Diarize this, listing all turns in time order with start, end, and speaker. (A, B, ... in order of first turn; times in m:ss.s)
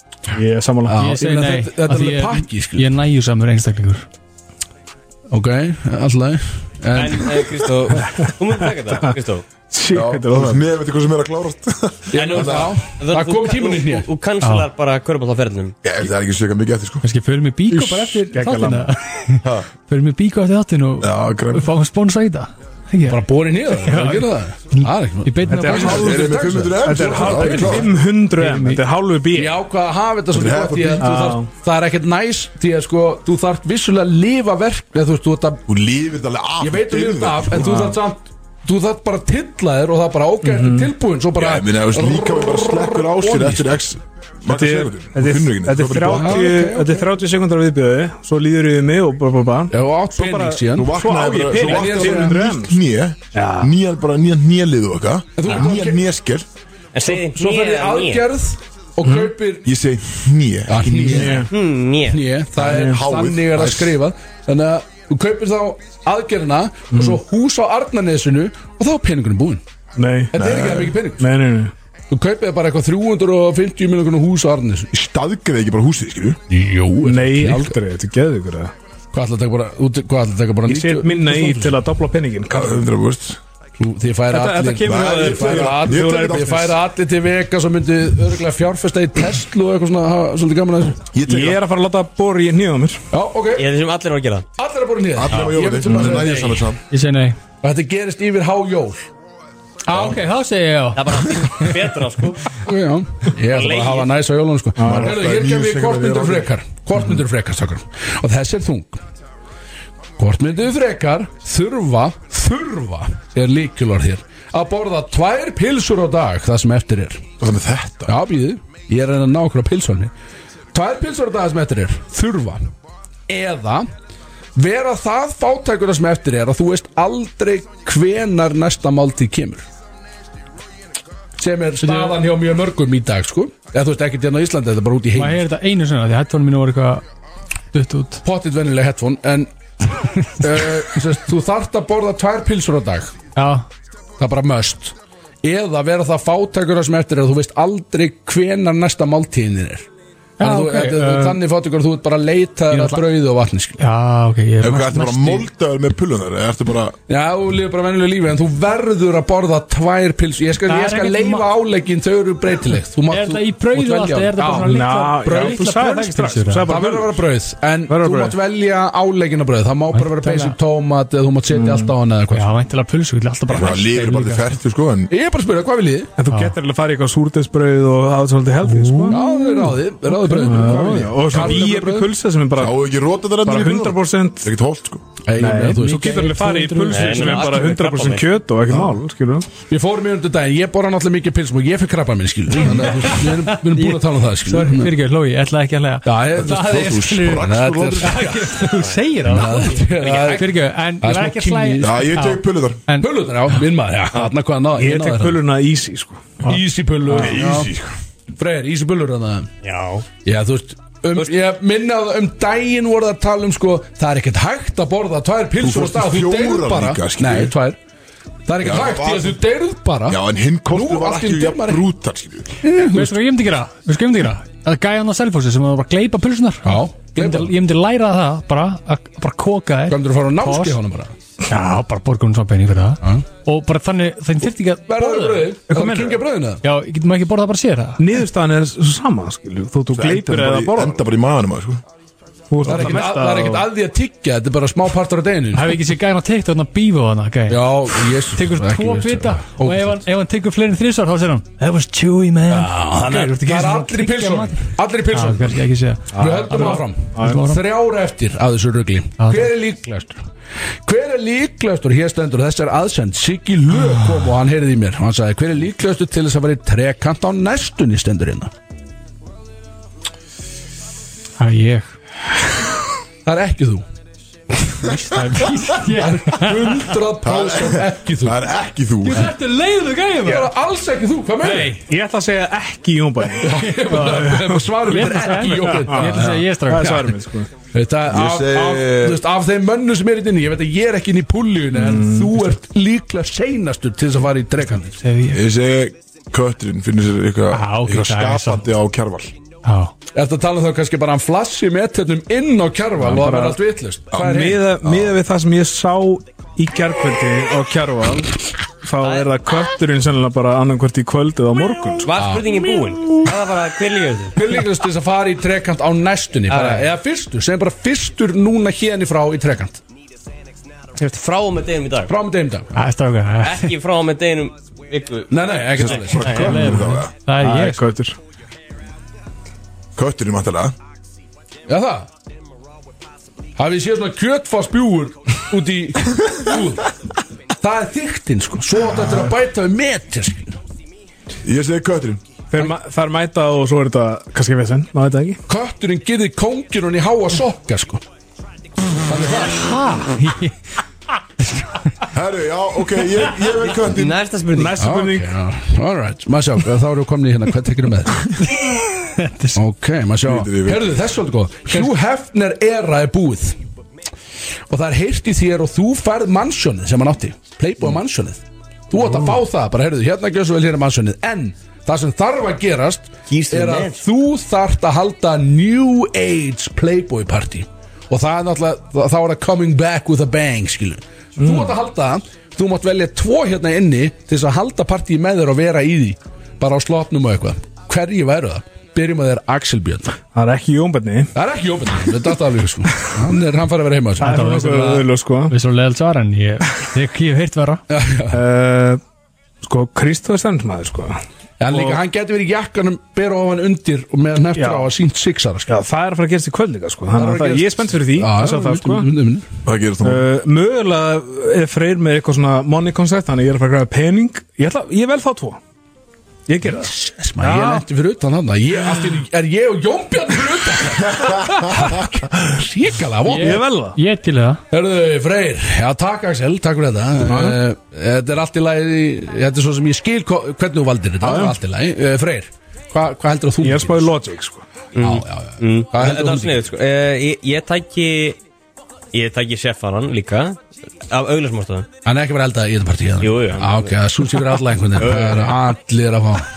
0:00.3-0:01.0 A
0:00.9-0:02.9 B
0:00.9-0:04.0 C
0:05.3-0:07.5 B
0:06.9-0:09.5 D
0:08.0-0:08.3 A
0:09.7-0:10.6 A
0:09.9-0:12.7 E
0:12.1-0:14.1 B
0:12.2-0:15.8 D
0:14.4-0:14.7 C
0:15.8-0:17.0 E
0:17.0-0:26.2 C
0:17.7-0:18.0 E
0:18.3-0:18.9 A
0:21.0-0:21.7 E
0:23.1-0:27.9 B
0:25.5-0:29.6 A
0:25.7-0:27.9 E
0:28.4-0:28.8 C
0:29.3-0:35.6 B
0:30.3-0:31.2 E
0:31.0-0:31.5 A
0:35.7-0:37.8 E
0:36.6-0:43.8 B
0:37.6-0:38.0 A
0:40.4-0:40.9 A
0:41.4-0:46.5 E
0:44.5-0:52.8 A
0:46.0-0:47.1 B
0:49.7-0:51.0 B
0:50.7-0:56.5 E
0:51.5-0:52.5 B
0:53.3-0:53.7 A
0:55.4-0:56.0 B
0:56.9-0:58.3 D
0:57.0-0:59.7 B
0:59.0-0:59.3 A
0:59.6-1:01.4 E
1:00.7-1:01.5 B
1:01.2-1:01.5 A
1:01.5-1:02.2 D
1:02.1-1:09.6 B
1:02.6-1:04.0 E
1:02.6-1:02.9 A
1:06.9-1:07.2 A
1:10.0-1:10.4 A
1:10.3-1:11.3 B
1:10.3-1:10.9 E
1:11.2-1:11.7 A
1:12.1-1:14.9 B
1:14.9-1:16.4 E
1:16.5-1:17.8 B
1:17.0-1:18.7 A
1:19.1-1:21.8 B
1:20.7-1:22.8 A
1:22.5-1:23.4 E
1:23.8-1:31.1 B
1:24.3-1:26.6 A
1:24.8-1:26.7 E
1:31.1-1:31.6 E
1:31.3-1:33.0 A
1:33.1-1:33.7 B
1:33.6-1:34.5 D
1:34.6-1:36.7 B
1:35.2-1:36.8 E
1:36.9-1:37.4 C
1:37.6-1:39.1 B
1:39.9-1:41.7 C
1:39.9-1:40.2 E
1:41.0-1:42.5 D
1:42.6-1:49.0 B
1:43.5-1:44.1 D
1:44.8-1:45.1 A
1:44.8-1:46.5 E
1:50.2-1:57.2 B
1:57.4-1:58.2 E
1:58.1-2:00.1 B
2:00.7-2:02.7 B
2:03.3-2:03.9 B
2:04.6-2:09.6 B
2:11.4-2:15.4 B
2:11.8-2:12.2 C
2:15.2-2:17.0 C
2:17.7-2:18.2 C
2:18.2-2:19.5 B
2:20.3-2:23.1 B
2:23.4-2:23.7 C
2:24.2-2:29.9 B
2:30.4-2:31.4 C
2:30.4-2:33.8 B
2:32.7-2:33.0 C
2:33.8-2:35.5 C
2:34.6-2:37.0 E
2:37.1-2:45.6 B
2:40.7-2:41.5 C
2:43.1-2:46.7 C
2:44.5-2:47.2 A
2:46.7-2:52.5 B
2:47.9-2:48.4 A
2:49.9-2:50.6 C
2:51.5-2:51.9 A
2:52.3-2:54.5 C
2:53.5-2:55.1 E
2:55.1-2:56.1 B
2:56.2-2:59.2 A
2:56.3-2:56.6 C
2:58.6-2:59.7 C
2:59.1-3:02.1 B
3:00.3-3:00.7 C
3:00.3-3:02.8 A
3:02.6-3:05.0 E
3:03.4-3:04.5 A
3:05.3-3:06.3 B
3:05.4-3:09.5 A
3:05.8-3:07.5 C
3:06.9-3:08.3 D
3:08.7-3:09.0 E
3:09.7-3:14.9 B
3:12.6-3:17.5 C
3:16.0-3:18.7 B
3:16.4-3:18.3 E
3:18.0-3:23.1 C
3:19.2-3:22.0 B
3:21.8-3:22.8 E
3:23.0-3:25.4 B
3:24.8-3:26.4 A
3:26.5-3:27.7 B
3:27.1-3:27.4 A
3:27.2-3:27.9 E
3:28.4-3:29.5 B
3:29.6-3:30.1 D
3:30.2-3:37.8 B
3:35.6-3:37.5 E
3:38.5-3:40.2 B
3:38.6-3:39.4 E
3:40.1-3:42.5 E
3:40.7-3:41.8 B
3:42.6-3:43.2 B
3:42.7-3:50.8 C
3:46.6-3:47.5 B
3:49.9-3:51.1 B
3:51.5-3:55.5 C
3:54.9-3:56.6 B
3:55.7-3:56.2 A
3:56.6-3:58.0 C
3:58.0-4:01.0 A
3:59.9-4:01.8 E
4:02.5-4:03.7 A
4:02.6-4:05.8 B
4:05.5-4:17.6 C
4:07.5-4:10.0 B
4:12.5-4:15.6 B
4:16.1-4:17.4 A
4:16.2-4:20.2 B
4:19.2-4:19.5 C
4:20.9-4:28.5 B
4:31.4-4:31.9 C
4:33.3-4:33.8 B
4:34.8-4:36.9 C
4:35.9-4:38.4 B
4:37.2-4:39.3 E
4:39.0-4:40.5 C
4:40.2-4:41.8 B
4:41.4-4:41.8 C
4:41.8-4:47.5 A
4:43.4-4:46.5 B
4:44.9-4:47.2 C
4:47.7-4:55.0 B
4:48.1-4:49.2 E
4:51.8-4:52.3 A
4:55.0-4:55.4 C
4:55.3-4:59.3 E
4:57.5-4:58.6 C
4:59.6-4:59.9 C
5:00.1-5:04.7 B
5:03.0-5:03.6 A
5:04.2-5:12.1 A
5:04.8-5:05.2 E
5:09.0-5:09.3 D
5:12.0-5:14.4 D
5:12.2-5:12.8 B
5:14.4-5:19.8 B
5:16.5-5:16.9 D
5:21.0-5:22.1 D
5:22.1-5:22.7 B
5:22.7-5:23.7 C
5:23.4-5:26.6 D
5:25.3-5:26.4 B
5:25.8-5:27.1 E
5:26.3-5:27.8 C
5:27.4-5:28.2 A
5:30.0-5:30.8 E
5:31.7-5:32.1 B
5:33.6-5:36.9 B
5:37.6-5:40.6 B
5:41.4-5:42.2 E
5:42.5-5:45.4 A
5:45.5-5:48.0 B
5:49.1-5:49.7 B
5:49.4-5:50.6 C
5:51.5-5:51.8 C
5:52.1-5:54.2 E
5:53.9-5:54.8 D
5:54.5-5:55.3 A
5:54.8-5:58.4 B
5:59.2-5:59.6 C
5:59.6-6:03.6 B
6:00.2-6:01.0 E
6:04.7-6:30.2 B
6:13.3-6:14.0 D
6:21.4-6:21.7 A
6:30.3-6:31.3 A
6:31.4-6:34.4 B
6:34.2-6:35.6 A
6:34.2-6:37.8 C
6:37.9-6:38.4 B
6:38.3-6:39.0 A
6:39.6-6:42.0 A
6:41.6-6:45.7 B
6:44.6-6:44.9 A
6:45.7-6:49.1 A
6:47.1-6:49.4 B
6:49.6-6:50.3 E
6:50.0-6:55.6 A
6:56.5-6:56.9 A
6:56.6-7:03.6 B
6:57.4-6:57.8 C
7:03.3-7:04.6 C
7:03.3-7:04.0 A
7:04.7-7:14.1 B
7:07.2-7:07.6 A
7:11.2-7:11.6 A
7:13.6-7:14.6 A
7:15.0-7:18.4 D
7:15.0-7:16.6 B
7:19.1-7:21.9 D
7:22.0-7:26.5 B
7:23.2-7:25.6 D